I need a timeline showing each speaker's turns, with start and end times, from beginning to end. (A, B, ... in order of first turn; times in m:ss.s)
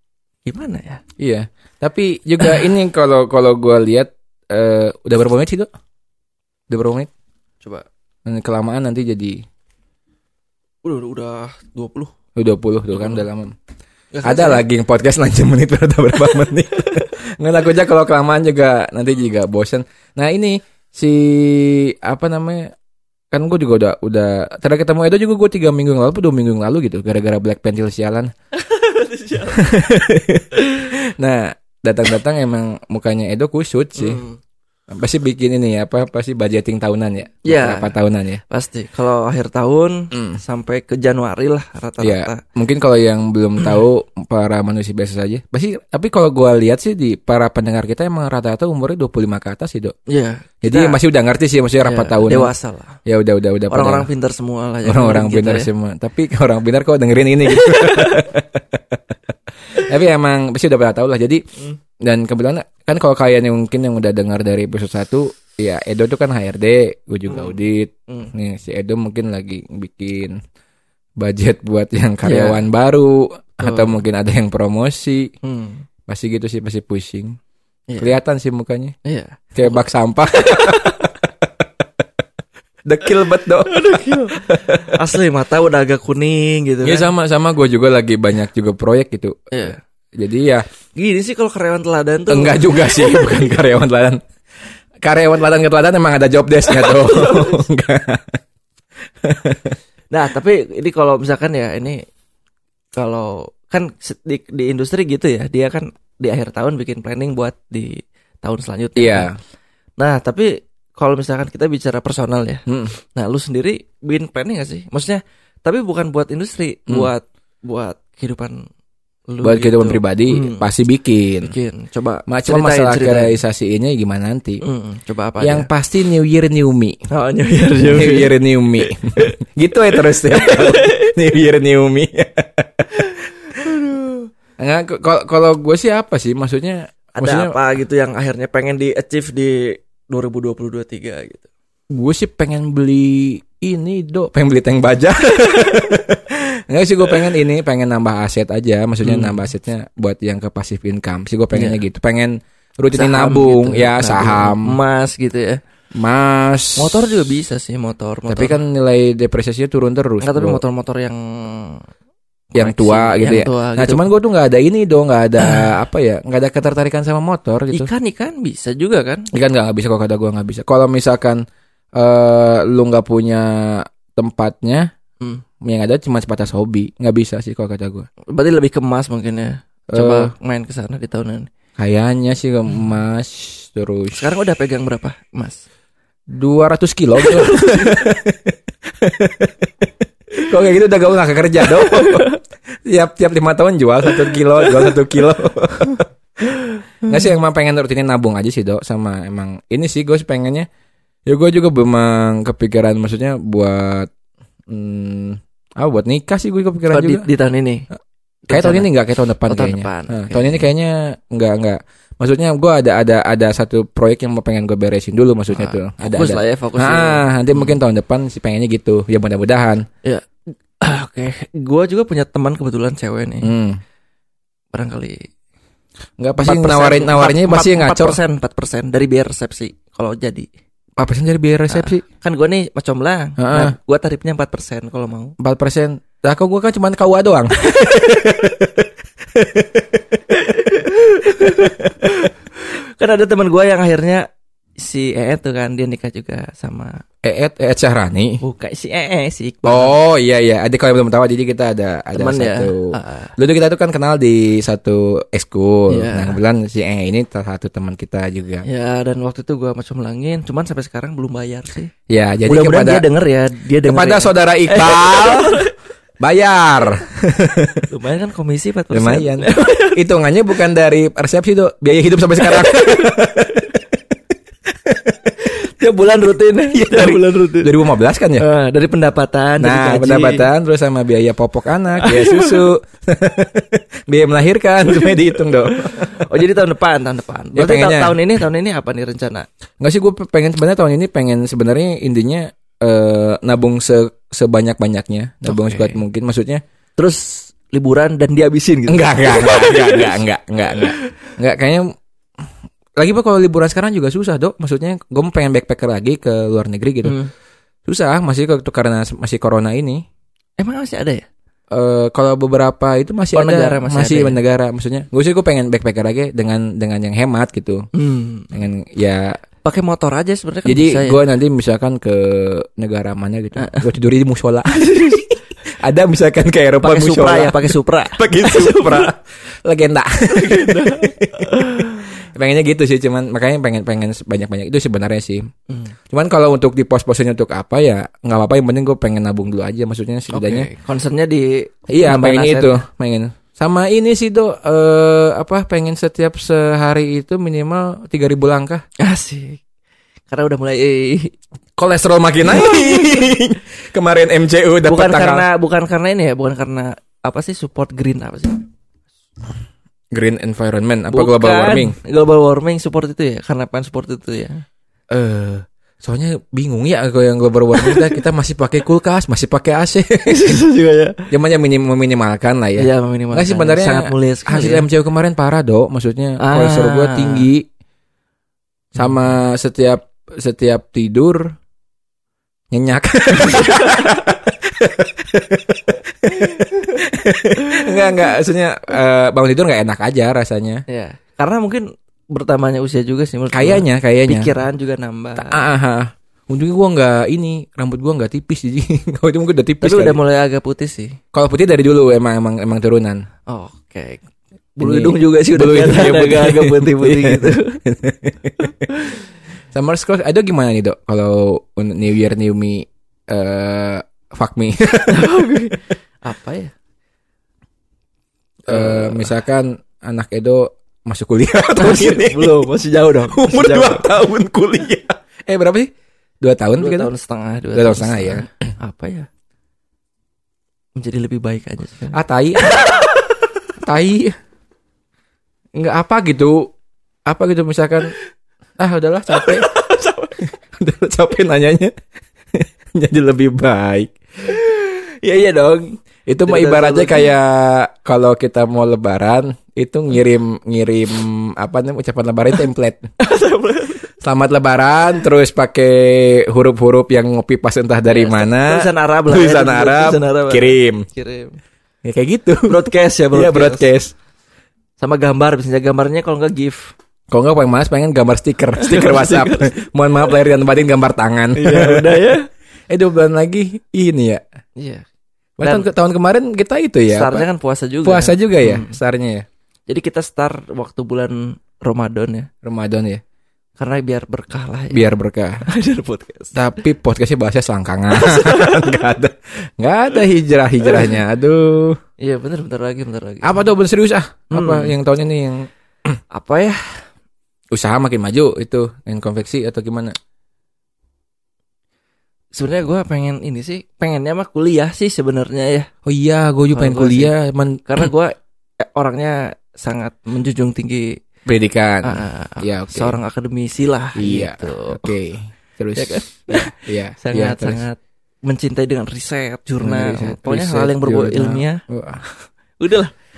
0:00.4-0:01.0 A
0:01.2-0:05.7 B
0:06.7-0:07.1 B
0:08.2-0:09.4 B
0:10.8-0:12.1 A
0:12.4-0:13.5 B
0:13.0-0:13.2 A
0:14.1-0:14.6 A
0:14.2-0:22.7 B
0:23.3-0:28.3 B
0:28.6-0:29.7 A
0:29.5-0:34.2 B
0:30.5-0:30.9 A
0:34.0-0:34.4 A
0:34.9-0:38.4 B
0:37.4-0:37.9 A
0:38.5-0:42.4 A
0:40.1-0:40.4 B
0:42.0-0:50.0 B
0:50.1-0:51.0 A
0:50.6-0:52.5 B
0:51.8-0:53.0 A
0:53.0-0:54.1 B
0:53.7-0:55.7 A
0:54.8-0:59.0 B
0:57.5-0:58.3 A
0:59.7-1:01.4 B
1:02.0-1:10.4 B
1:07.3-1:07.5 A
1:11.2-1:15.3 B
1:12.2-1:12.6 A
1:13.6-1:14.0 A
1:15.4-1:15.8 A
1:16.1-1:17.4 B
1:17.9-1:18.2 A
1:18.0-1:19.0 B
1:19.0-1:19.8 A
1:19.5-1:21.1 B
1:20.4-1:21.1 A
1:22.8-1:25.0 B
1:23.6-1:27.1 A
1:26.8-1:30.6 B
1:29.5-1:29.8 A
1:31.0-1:33.4 A
1:32.3-1:34.2 B
1:35.0-1:38.4 B
1:36.7-1:37.6 A
1:39.2-1:39.8 B
1:40.1-1:42.0 A
1:43.0-1:49.3 A
1:49.0-1:49.3 B
1:50.0-1:58.6 A
1:52.7-1:52.9 B
1:59.3-2:00.7 A
1:59.4-2:01.5 B
2:01.4-2:03.4 A
2:02.3-2:04.6 B
2:04.6-2:05.7 A
2:05.4-2:07.0 B
2:07.1-2:09.3 A
2:07.8-2:12.9 B
2:10.0-2:11.1 A
2:13.0-2:14.3 A
2:14.6-2:17.5 B
2:17.2-2:21.5 A
2:21.9-2:34.8 B
2:29.0-2:29.4 A
2:31.5-2:31.8 A
2:32.9-2:35.6 A
2:35.9-2:37.0 B
2:36.8-2:38.6 A
2:38.3-2:40.6 B
2:40.2-2:41.8 A
2:42.5-2:44.1 A
2:42.5-2:47.9 B
2:45.4-2:45.7 A
2:47.7-2:49.3 A
2:49.3-2:51.4 B
2:51.9-2:54.9 B
2:55.6-2:58.1 B
2:58.3-3:01.5 A
2:59.9-3:00.3 B
3:01.8-3:04.2 B
3:04.1-3:05.6 A
3:06.3-3:09.7 B
3:07.2-3:08.0 A
3:10.4-3:12.3 B
3:11.7-3:12.4 A
3:12.8-3:16.0 B
3:14.3-3:14.9 A
3:16.6-3:17.1 A
3:17.0-3:20.7 B
3:21.2-3:24.1 B
3:24.7-3:27.3 B
3:26.9-3:27.8 A
3:28.5-3:28.9 A
3:28.5-3:39.8 B
3:29.5-3:30.6 A
3:35.5-3:37.8 A
3:40.8-3:43.5 A
3:43.4-3:43.8 B
3:44.7-3:45.3 A
3:46.2-3:48.2 B
3:46.4-3:50.5 A
3:51.0-3:52.0 B
3:51.7-3:55.3 A
3:53.4-3:53.7 B
3:55.4-4:00.0 B
4:00.3-4:04.2 A
4:01.4-4:02.0 B
4:04.8-4:07.0 A
4:07.2-4:08.4 B
4:08.4-4:10.0 A
4:09.6-4:18.6 B
4:12.1-4:13.3 A
4:15.9-4:16.4 A
4:18.6-4:21.9 A
4:22.1-4:23.0 B
4:22.5-4:25.7 A
4:23.8-4:25.6 B
4:26.2-4:27.8 B
4:27.9-4:30.0 A
4:28.9-4:33.8 B
4:32.4-4:33.7 A
4:34.7-4:35.5 B
4:35.4-4:37.8 A
4:36.7-4:38.4 B
4:38.4-4:40.5 A
4:39.6-4:46.3 B
4:42.0-4:42.7 A
4:44.9-4:49.5 A
4:47.5-4:48.2 B
4:49.8-4:56.6 B
4:55.4-4:56.0 A
4:57.0-5:00.2 A
4:58.9-5:01.9 B
5:00.8-5:01.0 A
5:03.0-5:07.2 B
5:07.0-5:07.3 A
5:07.8-5:10.0 B
5:10.6-5:11.3 A
5:11.7-5:17.9 B
5:13.3-5:14.4 A
5:17.9-5:18.5 A
5:18.5-5:19.4 B
5:19.6-5:21.2 A
5:20.6-5:35.5 B
5:23.6-5:23.8 A
5:24.7-5:25.3 A
5:26.8-5:29.1 A
5:30.3-5:32.1 A
5:36.1-5:40.7 B
5:40.3-5:42.8 A
5:41.9-5:48.8 B
5:49.0-5:49.6 A
5:50.3-5:51.3 A
5:51.8-5:55.5 B
5:52.4-5:53.3 A
5:54.8-5:58.7 A
6:00.1-6:02.0 B
6:01.1-6:04.6 A
6:05.1-6:10.6 B
6:07.8-6:08.2 A
6:10.3-6:11.3 A
6:11.3-6:17.7 B
6:12.8-6:14.8 A
6:16.4-6:17.5 A
6:18.9-6:21.6 B
6:22.7-6:30.8 B
6:27.7-6:28.1 A
6:30.9-6:35.6 A
6:33.5-6:34.5 B
6:35.4-6:40.2 B
6:39.8-6:41.2 A
6:41.3-6:43.2 B
6:43.5-6:44.2 A
6:44.8-6:47.8 A
6:44.8-6:48.7 B
6:48.6-6:49.2 A
6:49.7-6:55.3 B
6:55.1-6:56.7 A
6:58.6-6:59.3 A
6:58.7-7:02.6 B
7:01.8-7:04.0 A
7:03.3-7:07.1 B
7:06.8-7:09.3 A
7:07.7-7:08.5 B
7:11.0-7:13.0 A
7:12.1-7:12.9 B
7:13.8-7:14.4 B
7:15.8-7:16.7 B
7:17.2-7:18.1 B
7:18.8-7:19.7 B
7:19.3-7:20.4 A
7:20.7-7:21.9 B
7:22.5-7:24.2 B
7:24.4-7:27.3 A
7:26.3-7:33.0 B
7:33.2-7:34.1 A
7:34.2-7:41.0 B
7:38.1-7:41.6 A
7:42.0-7:42.8 B
7:42.7-7:43.9 A
7:43.3-7:44.1 B
7:45.0-7:46.9 A
7:47.3-7:52.3 B
7:48.8-7:49.9 A
7:51.5-7:52.5 A
7:52.9-7:54.4 B
7:54.8-7:55.0 A
7:55.6-7:57.4 B
7:57.1-7:59.0 A
7:58.0-7:59.4 B
7:59.9-8:02.5 A
8:02.6-8:03.2 B
8:03.8-8:05.1 A
8:04.9-8:05.6 B
8:05.6-8:06.6 A
8:06.5-8:12.0 B
8:08.1-8:09.0 A
8:12.2-8:13.6 A
8:13.4-8:16.2 B
8:14.5-8:14.9 A
8:16.3-8:17.0 A
8:17.7-8:20.1 B
8:22.6-8:25.9 A
8:26.0-8:28.1 B
8:26.7-8:27.3 A
8:27.8-8:31.2 A
8:31.4-8:33.2 B
8:32.0-8:35.1 A
8:34.2-8:37.8 B
8:35.9-8:41.8 A
8:39.8-8:42.3 B
8:42.8-8:43.1 A